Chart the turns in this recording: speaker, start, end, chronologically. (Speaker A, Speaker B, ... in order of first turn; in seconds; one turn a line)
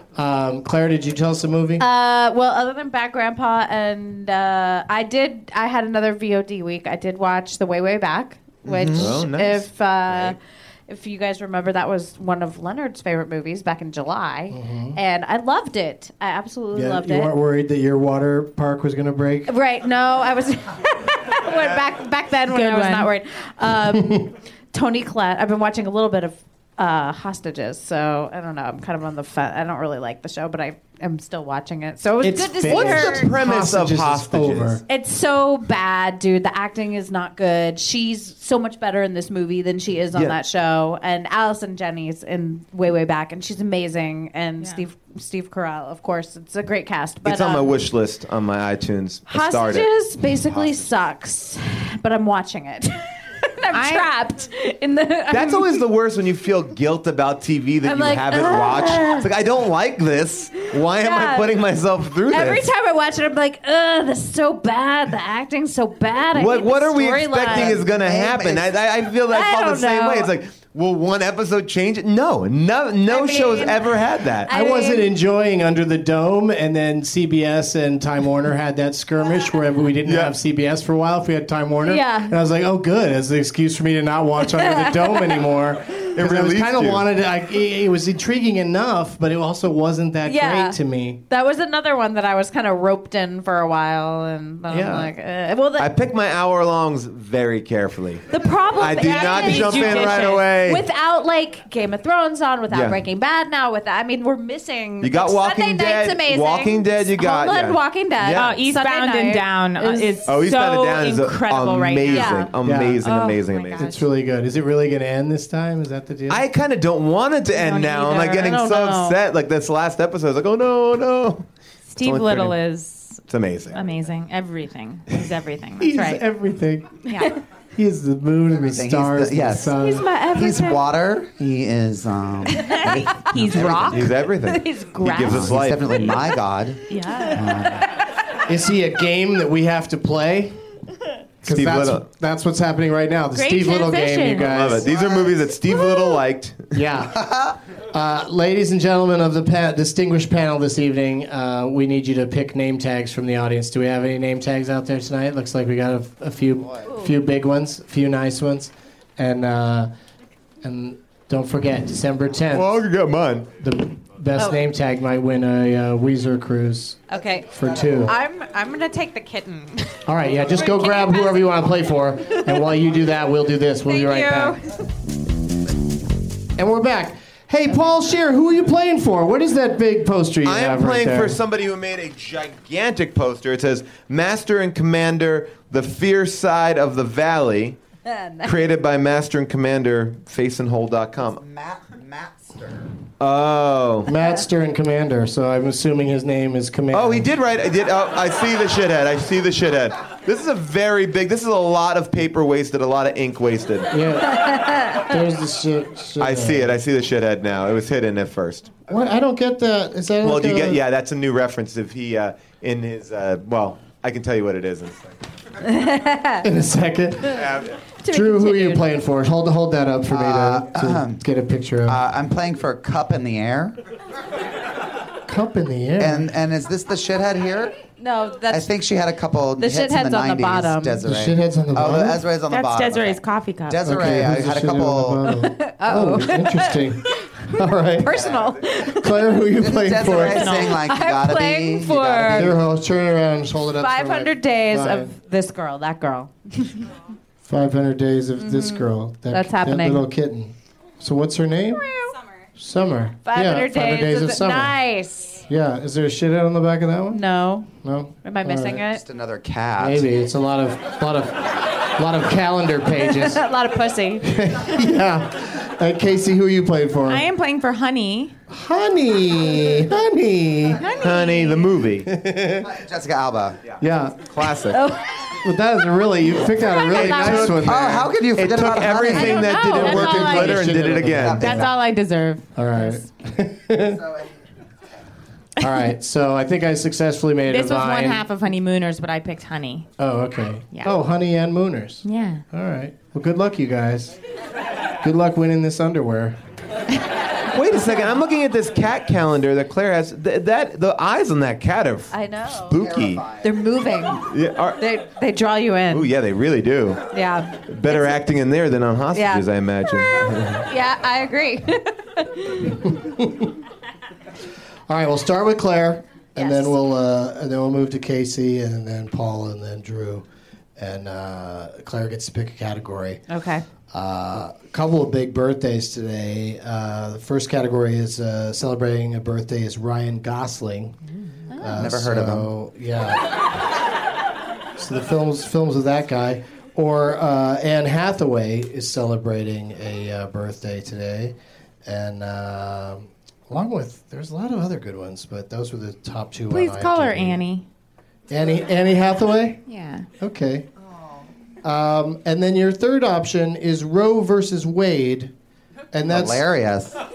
Speaker A: 0.1-1.8
Speaker B: 1.8-10.4
Speaker C: 8.7-9.1
Speaker D: 8.7-10.3
Speaker B: 10.9-17.3
Speaker A: 14.5-15.0
Speaker A: 16.7-19.5
Speaker B: 19.5-33.3
Speaker E: 22.5-23.1
Speaker A: 23.9-24.2
Speaker A: 32.2-34.8
Speaker D: 32.6-34.8
Speaker B: 34.9-47.8
Speaker D: 47.2-49.9
Speaker B: 49.3-55.9
Speaker E: 53.7-54.1
Speaker D: 55.3-62.7
Speaker B: 57.8-59.3
Speaker B: 60.7-61.7
Speaker B: 62.3-68.4
Speaker D: 66.3-74.5
Speaker C: 67.5-68.7
Speaker B: 69.2-70.3
Speaker B: 73.0-75.1
Speaker A: 74.5-91.2
Speaker D: 80.0-80.3
Speaker B: 81.8-82.3
Speaker B: 84.5-85.4
Speaker D: 86.1-87.0
Speaker B: 90.2-90.8
Speaker B: 91.3-95.9
Speaker A: 94.7-95.1
Speaker D: 95.8-100.8
Speaker B: 98.3-110.3
Speaker E: 99.0-100.5
Speaker D: 102.7-103.0
Speaker D: 105.0-108.6
Speaker E: 108.3-112.5
Speaker D: 110.2-113.9
Speaker B: 112.1-112.5
Speaker A: 112.6-113.0
Speaker E: 113.0-114.0
Speaker A: 113.8-116.4
Speaker D: 116.3-121.5
Speaker E: 117.5-118.5
Speaker B: 118.2-119.2
Speaker E: 121.9-123.2
Speaker D: 122.0-122.5
Speaker D: 123.3-123.8
Speaker E: 123.7-126.2
Speaker A: 125.8-127.0
Speaker E: 127.1-127.3
Speaker B: 127.1-127.4
Speaker A: 127.7-130.1
Speaker C: 128.7-134.1
Speaker B: 129.7-130.9
Speaker B: 132.6-135.5
Speaker E: 132.7-134.1
Speaker D: 133.5-136.2
Speaker C: 135.2-136.8
Speaker B: 136.9-137.8
Speaker C: 137.3-137.9
Speaker A: 138.5-140.6
Speaker A: 141.4-144.9
Speaker D: 141.5-142.1
Speaker E: 143.3-144.6
Speaker D: 144.4-146.8
Speaker C: 144.9-145.4
Speaker A: 146.7-147.2
Speaker C: 147.1-147.6
Speaker A: 147.9-159.9
Speaker B: 156.9-157.2
Speaker A: 160.6-162.8
Speaker D: 162.5-163.5
Speaker A: 163.6-168.1
Speaker B: 167.1-172.7
Speaker A: 170.1-174.6
Speaker B: 173.9-174.7
Speaker A: 176.6-181.4
Speaker D: 180.4-187.8
Speaker B: 188.1-188.5
Speaker D: 188.4-191.4
Speaker C: 191.2-192.9
Speaker D: 193.2-194.1
Speaker A: 194.1-197.3
Speaker D: 196.9-203.9
Speaker A: 203.9-206.8
Speaker B: 204.4-205.1
Speaker D: 206.2-208.7
Speaker A: 208.9-210.8
Speaker D: 210.2-215.1
Speaker B: 215.6-216.4
Speaker A: 216.4-217.5
Speaker D: 217.3-217.7
Speaker B: 218.0-218.9
Speaker A: 218.1-222.0
Speaker C: 220.1-221.2
Speaker C: 221.8-223.8
Speaker A: 225.3-226.3
Speaker C: 226.0-227.8
Speaker B: 228.0-228.7
Speaker C: 228.5-235.3
Speaker B: 229.6-231.0
Speaker A: 231.0-232.2
Speaker E: 232.5-233.8
Speaker A: 233.8-238.2
Speaker B: 235.4-236.9
Speaker B: 238.0-239.3
Speaker A: 238.7-240.4
Speaker C: 239.6-242.6
Speaker B: 240.2-242.5
Speaker E: 240.2-240.8
Speaker A: 242.3-245.1
Speaker B: 243.8-246.8
Speaker A: 247.4-251.8
Speaker B: 248.4-250.1
Speaker B: 251.8-252.1
Speaker A: 252.6-254.8
Speaker B: 253.2-255.4
Speaker A: 255.5-257.2
Speaker B: 257.1-257.7
Speaker A: 257.8-258.8
Speaker B: 258.2-259.0
Speaker C: 258.8-260.1
Speaker A: 259.8-263.4
Speaker B: 263.0-264.2
Speaker A: 264.2-267.2
Speaker E: 267.1-268.4
Speaker A: 268.5-270.8
Speaker E: 270.8-271.8
Speaker D: 271.0-272.1
Speaker A: 272.0-272.7
Speaker C: 272.6-273.6
Speaker A: 273.8-274.2
Speaker D: 274.3-274.8
Speaker B: 274.7-275.3
Speaker A: 275.4-278.1
Speaker B: 276.5-277.6
Speaker D: 276.9-281.6
Speaker C: 277.6-279.5
Speaker B: 279.1-280.6
Speaker A: 279.5-281.7
Speaker C: 281.0-281.7
Speaker E: 281.4-283.0
Speaker A: 282.6-284.0
Speaker C: 283.8-284.3
Speaker A: 285.6-288.2
Speaker E: 287.5-289.9
Speaker A: 290.0-294.2
Speaker E: 292.0-292.4
Speaker A: 295.0-296.4
Speaker D: 297.5-302.1
Speaker B: 302.1-302.8
Speaker D: 302.6-303.3
Speaker C: 302.7-303.5
Speaker B: 303.4-306.1
Speaker D: 304.2-304.8
Speaker D: 305.9-307.1
Speaker B: 307.1-308.1
Speaker D: 307.7-310.6
Speaker B: 309.1-310.0
Speaker B: 310.6-313.0
Speaker A: 312.8-313.5
Speaker A: 314.9-320.2
Speaker B: 316.4-316.7
Speaker A: 320.8-323.2
Speaker B: 323.3-323.6
Speaker A: 323.9-330.9
Speaker B: 331.5-331.9
Speaker A: 331.6-333.4
Speaker C: 331.7-332.5
Speaker A: 334.8-341.3
Speaker A: 341.8-347.4
Speaker E: 346.5-347.6
Speaker A: 348.3-349.6
Speaker E: 349.7-350.1
Speaker A: 350.2-350.7
Speaker A: 351.6-355.3
Speaker A: 355.9-356.4
Speaker C: 356.1-357.0